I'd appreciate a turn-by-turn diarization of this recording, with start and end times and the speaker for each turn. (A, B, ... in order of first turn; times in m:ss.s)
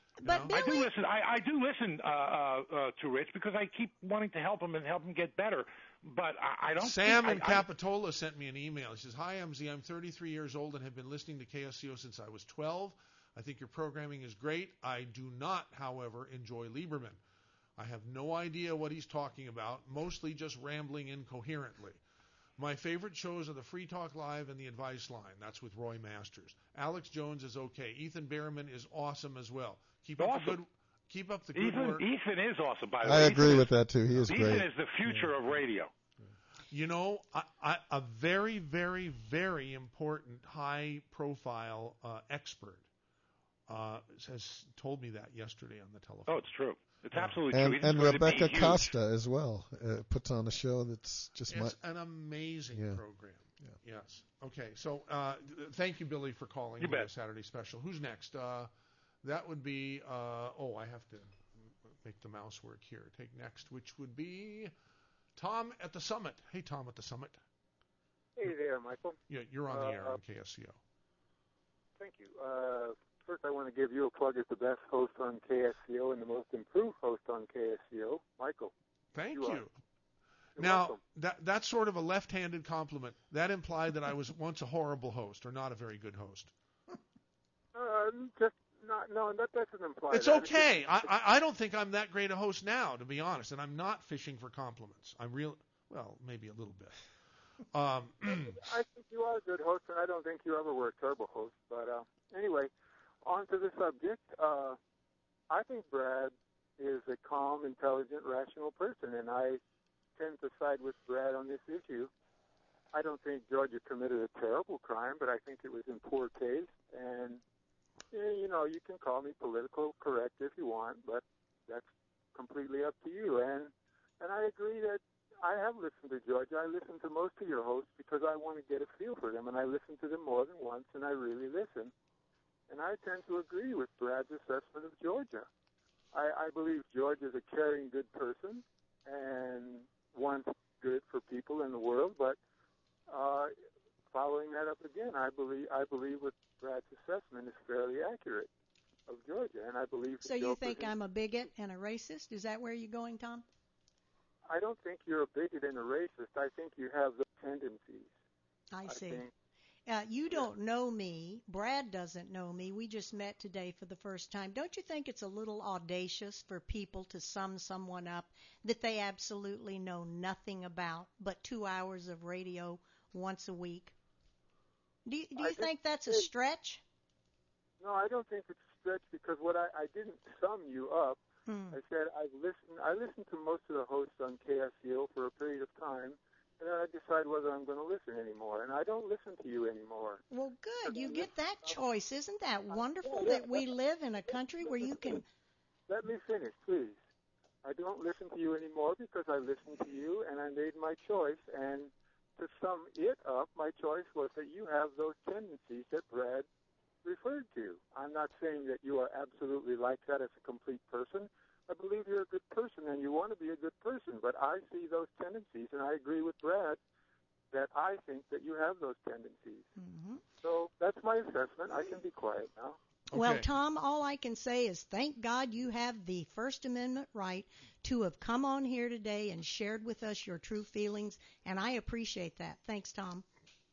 0:00.2-0:00.9 A
0:00.2-0:00.5 B
0:00.5-0:07.6 C
0:06.8-0:17.2 B
0:17.8-0:22.0 B
0:22.6-0:32.0 B
0:30.2-0:30.6 C
0:31.5-0:33.8 C
0:33.0-0:34.6 D
0:34.1-0:35.6 B
0:34.3-0:35.9 C
0:36.7-0:42.9 B
0:43.7-0:46.5 B
0:46.3-0:48.9 C
0:47.1-0:47.4 B
0:47.5-0:51.8 D
0:51.5-0:58.7 B
0:52.7-0:53.0 D
0:56.8-0:57.1 C
0:59.2-1:01.4 B
1:02.0-1:04.7 B
1:05.4-1:07.4 B
1:08.4-1:10.2 E
1:09.3-1:10.8 B
1:12.0-1:18.7 E
1:19.2-1:19.7 B
1:19.3-1:19.7 E
1:20.6-1:21.0 E
1:20.6-1:26.5 B
1:27.7-1:31.0 E
1:30.1-1:37.0 B
1:37.7-1:38.6 B
1:38.3-1:42.7 E
1:43.2-1:44.8 E
1:45.5-1:49.6 E
1:50.2-1:52.1 E
1:52.9-1:57.4 E
1:58.1-2:11.9 E
2:12.7-2:15.5 E
2:16.1-2:22.4 E
2:23.1-2:23.5 E
2:24.1-2:28.5 E
2:29.1-2:31.0 E
2:30.2-2:33.4 A
2:34.5-2:38.1 E
2:38.7-2:39.2 A
2:38.9-2:39.3 E
2:39.9-2:53.9 A
2:55.1-2:56.8 A
2:55.4-2:56.3 E
2:57.8-3:10.2 E
3:01.5-3:01.8 A
3:10.3-3:15.2 A
3:10.8-3:11.8 E
3:12.7-3:13.7 E
3:14.3-3:15.2 E
3:15.9-3:17.0 E
3:17.6-3:26.5 E
3:27.0-3:36.8 E
3:37.5-3:39.7 E
3:39.8-3:40.2 A
3:40.4-3:42.8 E
3:43.1-3:43.5 B
3:43.1-3:53.2 A